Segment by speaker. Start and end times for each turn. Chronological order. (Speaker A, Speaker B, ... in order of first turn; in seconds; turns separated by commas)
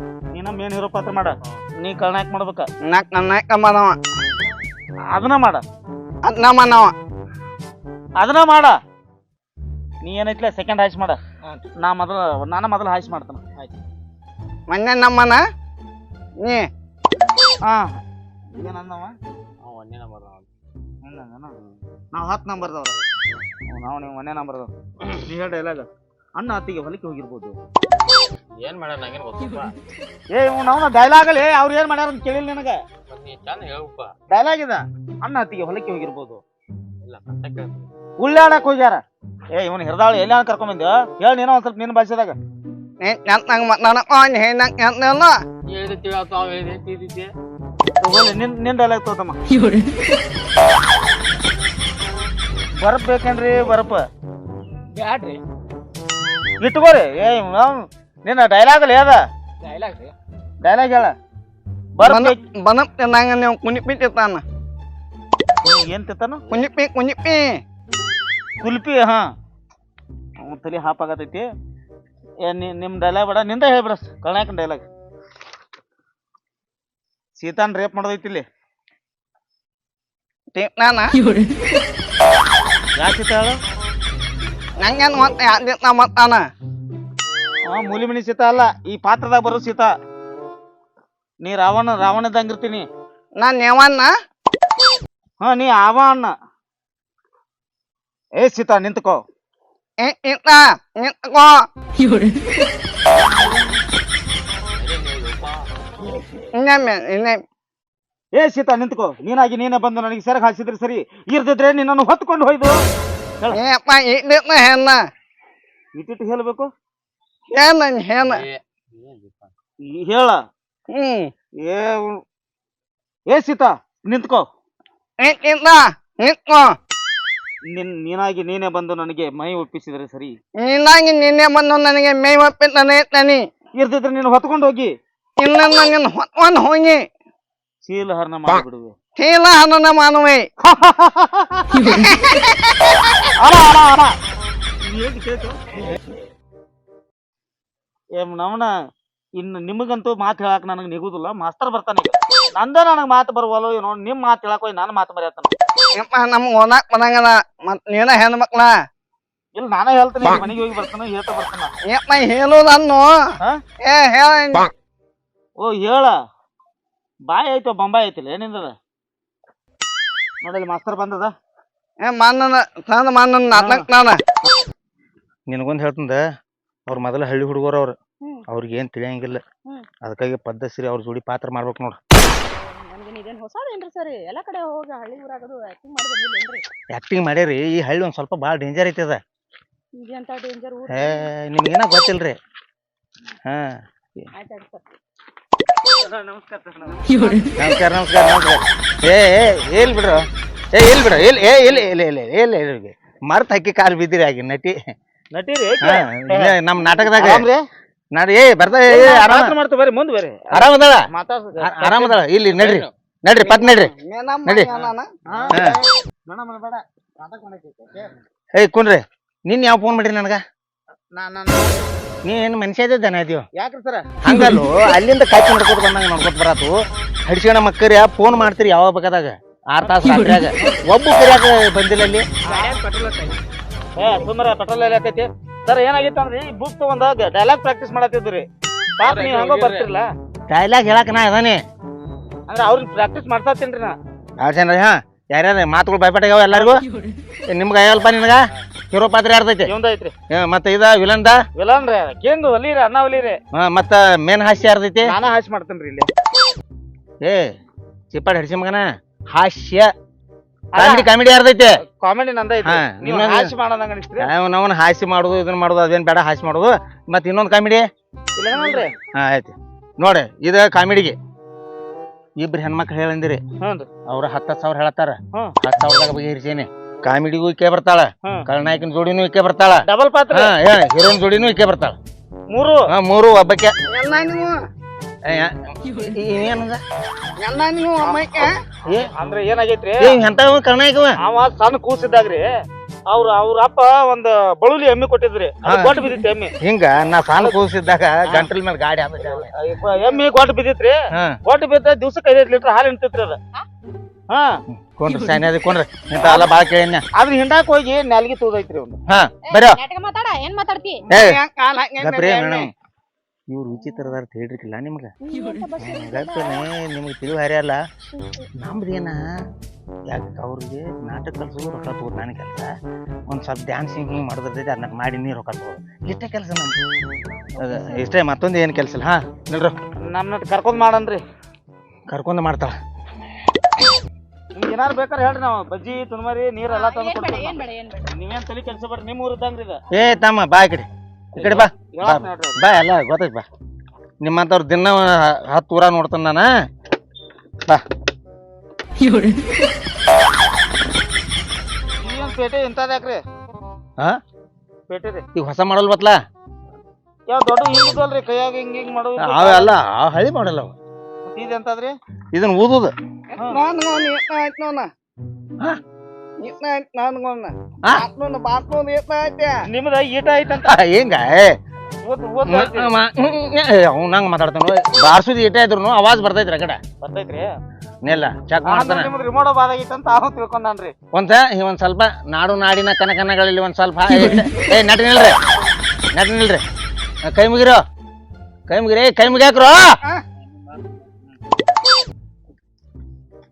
Speaker A: 0.3-2.7, Speaker B: 2.9-4.0, Speaker A: 5.1-5.6, Speaker B: 6.2-6.9, Speaker A: 8.2-8.7, Speaker A: 10.0-13.5, Speaker B: 14.7-15.4, Speaker B: 16.4-16.7, Speaker A: 17.6-18.0, Speaker A: 18.6-19.1, Speaker C: 19.6-20.5, Speaker A: 21.0-21.6, Speaker A: 22.1-23.0, Speaker A: 23.7-27.6, Speaker C: 28.6-29.7, Speaker A: 30.3-32.8, Speaker C: 33.1-34.1, Speaker A: 34.3-36.4, Speaker C: 37.0-37.9, Speaker A: 38.2-39.0, Speaker A: 39.5-42.4, Speaker B: 43.0-45.4, Speaker C: 45.7-47.3, Speaker A: 48.0-49.4, Speaker A: 52.8-54.1, Speaker A: 55.0-55.3, Speaker A: 56.6-60.0, Speaker A: 60.6-61.1, Speaker A: 62.0-62.4, Speaker B: 62.0-64.4, Speaker A: 65.6-66.5, Speaker B: 66.5-67.5, Speaker A: 68.6-69.2, Speaker A: 70.4-71.5, Speaker A: 72.4-74.8, Speaker A: 77.3-78.4, Speaker B: 80.5-81.2, Speaker A: 83.0-83.5, Speaker B: 84.8-86.4, Speaker A: 87.7-89.9, Speaker A: 91.4-92.8, Speaker B: 93.4-94.1, Speaker A: 95.4-96.3, Speaker A: 98.4-99.2, Speaker B: 100.0-101.7, Speaker A: 103.2-103.6, Speaker C: 104.8-105.7, Speaker B: 106.6-107.4, Speaker A: 108.3-112.8, Speaker B: 113.5-115.0, Speaker A: 115.9-116.7, Speaker B: 117.5-118.4, Speaker C: 118.2-119.5, Speaker A: 119.8-120.4, Speaker B: 120.9-121.3, Speaker A: 121.6-122.2, Speaker A: 123.3-124.4, Speaker B: 125.2-126.7, Speaker A: 127.7-130.4, Speaker B: 130.6-133.4, Speaker A: 133.8-134.9, Speaker B: 135.4-137.0, Speaker A: 137.8-138.9, Speaker B: 139.2-140.4, Speaker A: 140.6-141.9, Speaker B: 141.8-143.0, Speaker A: 143.3-144.2, Speaker A: 144.8-145.6, Speaker A: 148.1-148.7, Speaker A: 149.4-155.5, Speaker B: 155.9-158.7, Speaker A: 159.5-161.7, Speaker B: 161.8-163.2, Speaker B: 163.8-164.7, Speaker A: 165.6-166.1, Speaker A: 167.3-168.7, Speaker A: 170.4-171.3, Speaker B: 172.0-174.2, Speaker A: 173.5-173.9, Speaker D: 175.5-176.2, Speaker D: 176.9-177.9, Speaker D: 178.5-179.4, Speaker E: 179.6-179.9, Speaker D: 180.0-182.0, Speaker E: 182.4-186.6, Speaker D: 186.9-189.2, Speaker E: 190.0-191.3, Speaker D: 190.9-192.4, Speaker D: 193.4-193.8, Speaker E: 194.3-194.8, Speaker A: 195.9-197.1, Speaker E: 197.1-197.5, Speaker D: 197.6-204.8, Speaker A: 205.3-207.7, Speaker D: 205.8-207.5, Speaker D: 208.1-209.6, Speaker A: 208.8-212.2, Speaker D: 210.5-211.1, Speaker D: 211.6-213.9, Speaker C: 212.5-212.9, Speaker B: 213.4-215.1, Speaker D: 214.4-214.7, Speaker A: 214.7-218.2, Speaker D: 218.5-220.4, Speaker A: 221.1-221.9, Speaker D: 222.2-223.4, Speaker A: 223.5-224.2, Speaker D: 224.2-226.7, Speaker D: 227.2-232.3, Speaker A: 229.8-230.8, Speaker A: 232.4-232.8, Speaker C: 232.5-233.4, Speaker A: 233.9-238.4, Speaker A: 239.0-240.1, Speaker C: 239.0-239.9, Speaker D: 240.5-241.6, Speaker A: 242.5-244.0, Speaker D: 244.4-246.8, Speaker A: 246.5-246.8, Speaker D: 247.5-249.7, Speaker A: 249.7-250.1, Speaker D: 250.3-251.4, Speaker A: 251.6-253.4, Speaker D: 253.5-255.1, Speaker A: 255.0-256.1, Speaker D: 257.2-257.5, Speaker D: 258.1-259.9, Speaker A: 260.7-261.1, Speaker D: 260.8-261.8, Speaker A: 261.8-264.3, Speaker D: 262.6-263.5, Speaker D: 264.2-267.9, Speaker A: 268.4-268.9, Speaker D: 269.1-271.1, Speaker D: 272.4-273.4, Speaker A: 273.6-273.9, Speaker D: 274.1-282.0, Speaker A: 279.9-280.5, Speaker A: 282.5-282.9, Speaker D: 282.9-283.7, Speaker B: 283.9-284.5, Speaker D: 285.2-286.8, Speaker B: 287.4-288.5, Speaker A: 288.0-288.5, Speaker A: 289.0-290.2, Speaker D: 290.0-291.2, Speaker A: 291.2-292.5, Speaker A: 293.1-296.5, Speaker D: 295.6-296.0, Speaker D: 296.6-299.5, Speaker A: 299.2-303.4, Speaker A: 304.3-304.6, Speaker D: 304.8-307.0, Speaker A: 306.1-306.5, Speaker A: 307.1-309.0, Speaker D: 309.1-309.8, Speaker E: 309.5-311.1, Speaker D: 311.1-311.4, Speaker B: 311.1-312.7, Speaker D: 312.0-312.7, Speaker D: 313.5-315.1, Speaker E: 315.2-316.7, Speaker D: 315.8-317.8, Speaker E: 318.1-318.5, Speaker D: 318.6-319.2, Speaker D: 320.1-322.7, Speaker D: 323.3-326.8, Speaker D: 327.6-329.8, Speaker A: 330.0-331.2, Speaker D: 332.1-332.8, Speaker A: 334.5-339.8, Speaker E: 336.7-338.1, Speaker D: 339.9-343.4, Speaker A: 341.3-342.6, Speaker D: 344.2-346.5, Speaker A: 352.0-353.2, Speaker A: 354.9-355.2, Speaker D: 355.3-356.2, Speaker A: 357.3-359.7, Speaker D: 359.2-360.7, Speaker A: 361.2-361.9, Speaker D: 362.3-362.9, Speaker A: 363.4-363.6, Speaker B: 363.4-364.9, Speaker B: 366.4-369.5, Speaker A: 369.6-370.8, Speaker D: 370.5-371.6, Speaker A: 372.0-373.0, Speaker D: 372.4-376.8, Speaker A: 377.0-377.5, Speaker D: 378.0-379.1, Speaker A: 378.6-380.9, Speaker D: 381.1-385.4, Speaker D: 386.1-386.6, Speaker D: 387.2-387.8, Speaker D: 388.7-390.0, Speaker A: 390.6-391.4